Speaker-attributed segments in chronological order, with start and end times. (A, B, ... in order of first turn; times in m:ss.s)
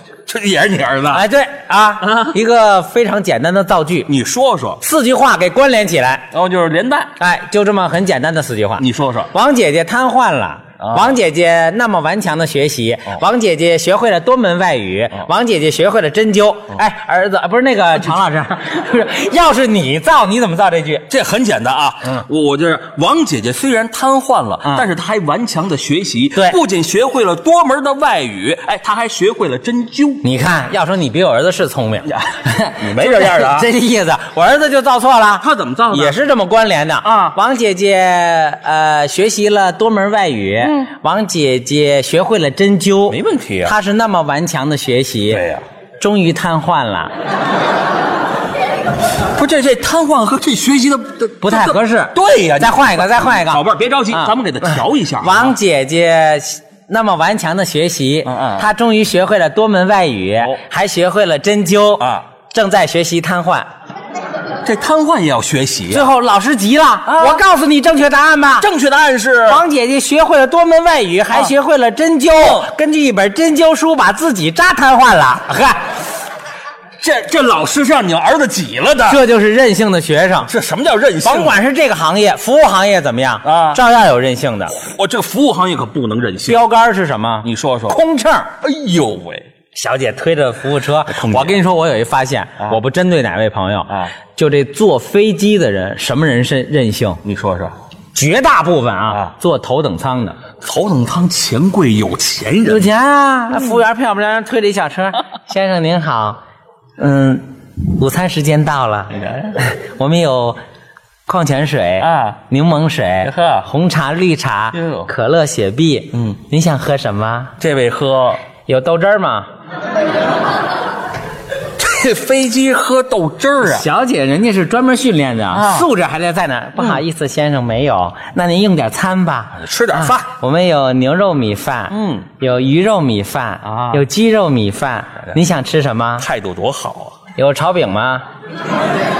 0:00.3-0:01.2 A
0:01.1-0:04.1 B
0:02.0-0:02.3 A
0:04.1-0:04.8 A
0:04.8-0:06.3 B
0:06.3-0:07.1 A
0:07.2-0:21.0 B
0:08.8-0:09.3 A
0:10.8-0:11.2 A
0:21.1-0:30.2 A
0:30.2-0:45.4 B
0:32.8-0:33.7 A
0:35.4-0:36.2 A
0:37.0-0:37.4 A
0:43.1-0:43.7 A
0:45.3-0:45.6 A
0:46.0-0:47.1 B
0:49.4-0:55.6 A
0:51.4-1:03.7 B
0:58.3-0:58.6 A
1:04.6-1:06.1 A
1:05.9-1:08.7 B
1:07.1-1:07.4 A
1:08.6-1:09.6 A
1:09.5-1:15.8 B
1:12.4-1:12.6 A
1:17.0-1:19.2 A
1:19.1-1:20.5 B
1:20.5-1:21.6 A
1:21.2-1:24.8 B
1:23.4-1:23.8 A
1:24.7-1:26.6 A
1:26.5-1:28.5 B
1:27.4-1:28.0 A
1:28.6-1:29.5 A
1:29.8-1:37.2 B
1:31.2-1:31.6 A
1:37.2-1:37.7 A
1:38.2-1:40.4 B
1:40.6-1:42.9 A
1:42.6-1:46.4 B
1:47.0-1:50.6 B
1:49.2-1:49.6 A
1:51.3-1:57.5 B
1:52.0-1:52.4 A
1:53.2-1:53.7 A
1:54.7-1:55.1 A
1:57.6-1:58.4 A
1:58.7-1:59.5 B
2:01.8-2:03.8 A
2:03.6-2:16.3 B
2:05.5-2:05.9 A
2:09.6-2:10.2 A
2:11.9-2:12.2 A
2:13.6-2:14.0 A
2:16.2-2:17.2 A
2:17.4-2:18.2 B